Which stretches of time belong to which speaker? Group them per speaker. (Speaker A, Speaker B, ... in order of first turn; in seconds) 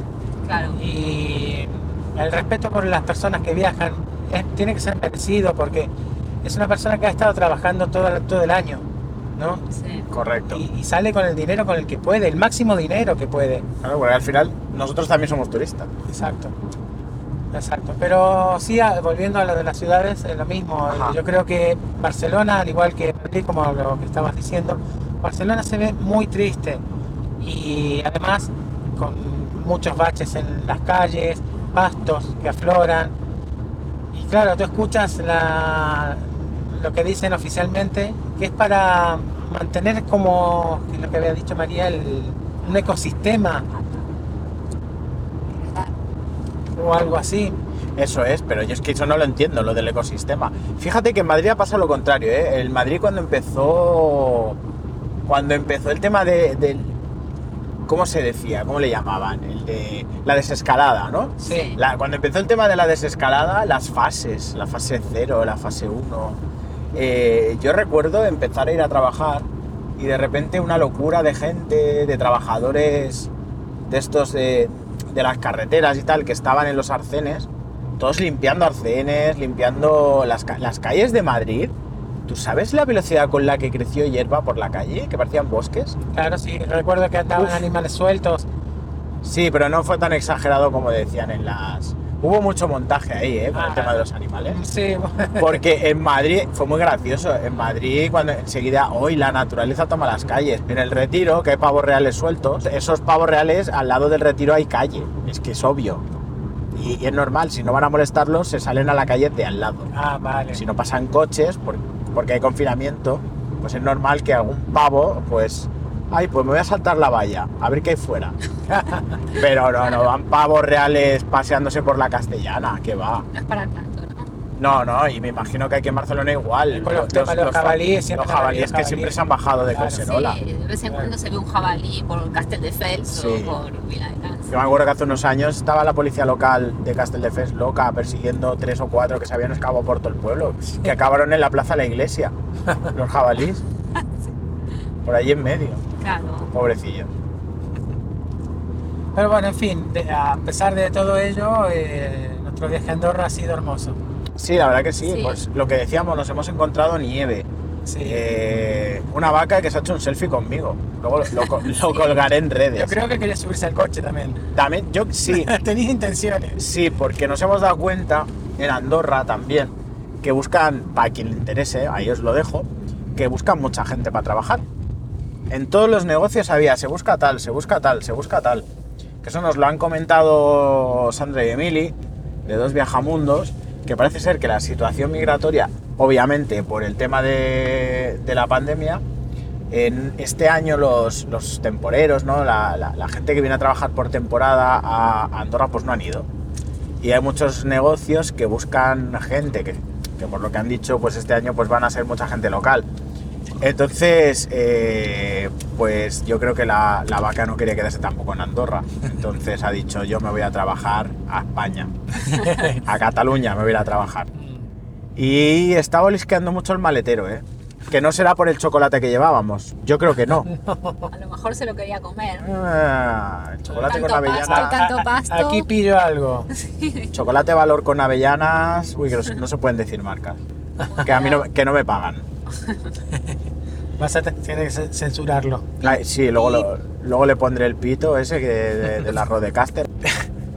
Speaker A: 0.5-0.8, 9.7-10.1, 61.4-61.8, 123.3-124.3, 130.0-134.6, 146.0-146.5, 155.0-155.4, 221.1-222.5, 223.8-225.7, 226.5-227.1, 230.9-231.5, 232.6-232.9, 236.4-236.6
Speaker B: 0.7-5.9, 6.4-8.8, 9.4-9.6, 10.5-13.7, 16.1-16.5, 17.5-26.8, 27.4-33.1, 34.1-43.7, 46.7-47.6, 61.4-61.7, 86.1-88.5, 93.5-95.6, 109.9-110.6, 118.7-119.2, 126.7-130.1, 149.1-154.0, 157.8-158.2, 162.8-164.4, 165.3-166.6, 212.3-212.8, 214.4-214.6, 220.4-221.1, 224.4-226.5, 234.0-235.8
Speaker C: 10.1-10.6, 13.8-15.9, 20.9-21.2, 48.0-54.6, 55.3-56.9, 57.9-66.4, 66.9-73.3, 73.9-81.7, 82.2-86.0, 87.3-87.7, 89.2-94.6, 95.4-106.0, 106.7-109.9, 110.5-118.3, 119.3-123.3, 124.6-130.4, 133.1-133.6, 134.5-142.3, 142.9-143.6, 145.0-145.8, 146.5-147.1, 154.4-157.5, 158.0-163.0, 164.5-165.5, 166.6-174.6, 175.5-178.7, 179.2-189.0, 189.7-196.3, 197.0-202.9, 203.6-211.9, 212.6-214.3, 215.2-220.5, 222.4-224.7, 227.1-230.4, 231.0-232.2, 235.8-240.2